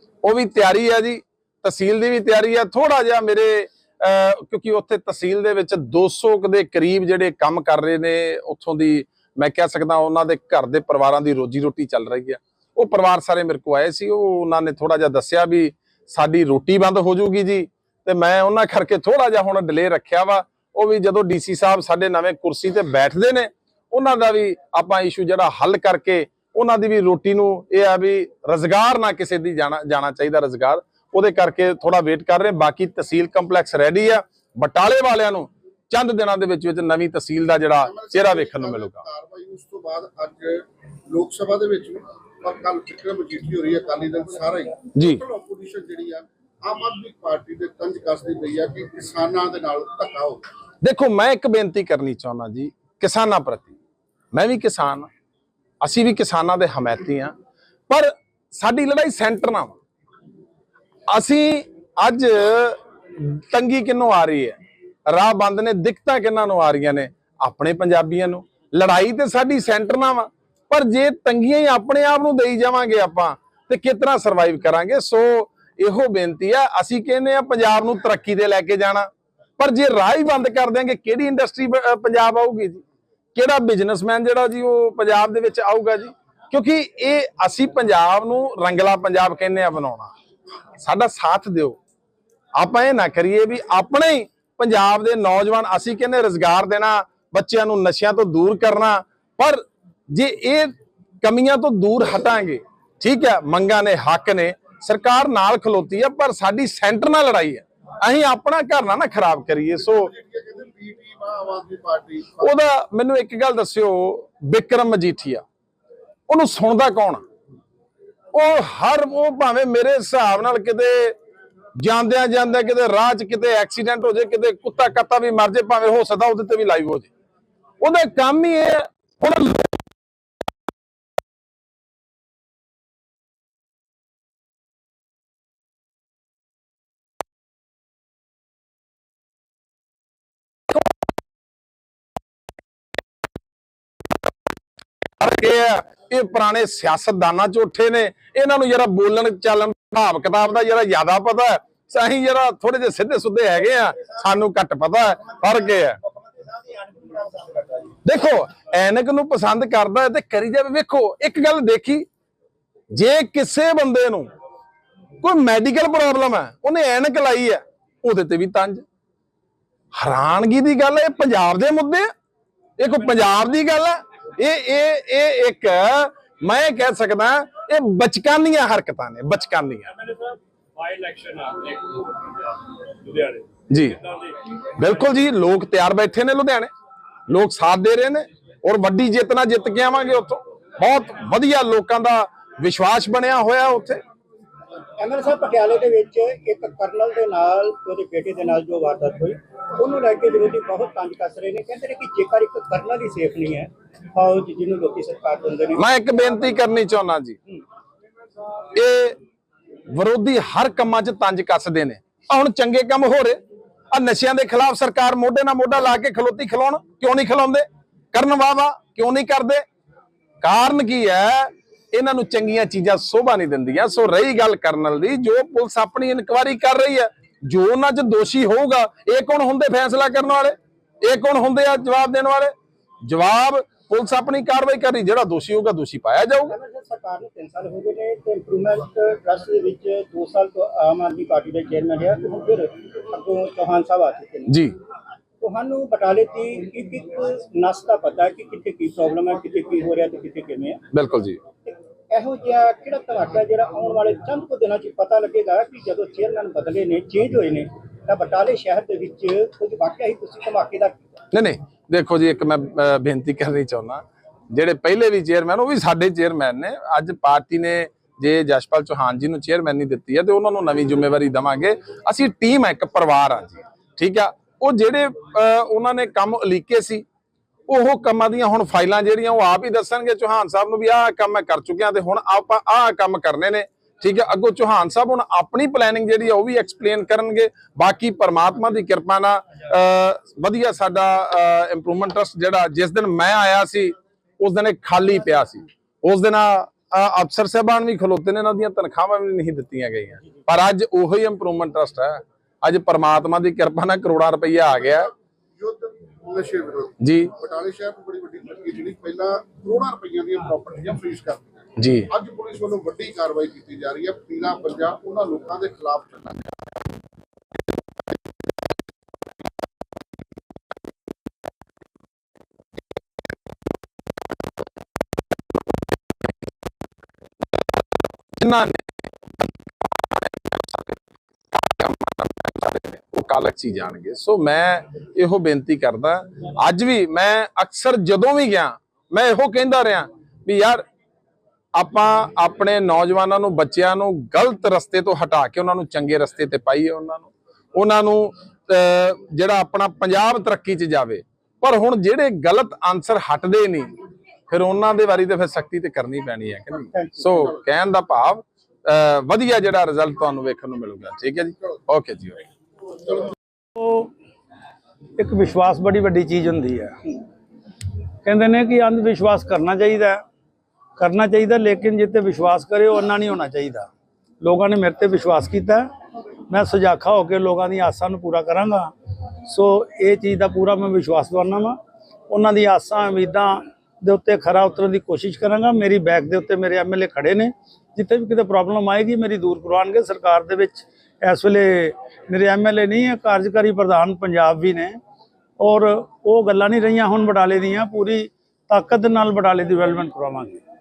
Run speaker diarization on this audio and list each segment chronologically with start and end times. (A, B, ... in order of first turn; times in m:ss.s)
0:00.2-0:39.0 A
0:37.8-0:50.5 B
0:45.0-0:45.2 A
0:50.8-0:53.7 A
0:54.3-0:55.1 A
0:55.8-0:57.3 A
0:57.9-0:59.8 A
1:01.1-1:04.6 A
1:05.1-1:22.8 A
1:23.3-1:30.1 A
1:30.8-1:31.8 A
1:32.6-1:50.1 A
1:49.9-1:52.5 B
1:52.4-1:55.4 A
1:56.3-1:57.2 A
1:58.3-2:01.2 A
2:01.8-2:07.1 A
2:07.8-2:09.7 A
2:25.2-2:36.0 A
2:38.0-2:42.0 A
2:42.9-2:44.3 A
2:45.2-2:48.8 A
2:49.9-2:52.1 A
2:52.8-2:59.9 A
3:00.0-3:02.2 C
3:03.0-3:03.4 C
3:03.7-3:06.7 A
3:07.3-3:14.0 A
3:15.0-3:26.6 D
3:25.8-3:27.4 A
3:28.7-3:29.2 A
3:29.9-3:33.4 A
3:33.9-3:39.6 A
3:40.4-3:52.5 A
3:53.0-3:56.5 A
3:56.5-4:04.6 D
4:04.5-4:04.8 A
4:05.4-4:10.8 D
4:10.9-4:11.4 A
4:11.6-4:21.1 D
4:21.3-4:37.0 A
4:37.7-5:05.1 A
5:05.6-5:16.6 B
5:07.0-5:07.3 A
5:11.8-5:12.1 A
5:28.4-5:28.8 A
5:30.1-5:30.8 A
5:31.5-5:40.8 A
5:41.7-5:53.9 A
5:54.5-6:02.4 A
5:56.9-5:57.3 D
6:03.8-6:04.1 E
6:05.2-6:07.0 E
6:08.2-6:10.2 E
6:11.0-6:13.9 E
6:14.4-6:15.9 E
6:16.5-6:18.9 E
6:19.4-6:21.8 E
6:22.3-6:35.0 E
6:35.6-6:40.6 E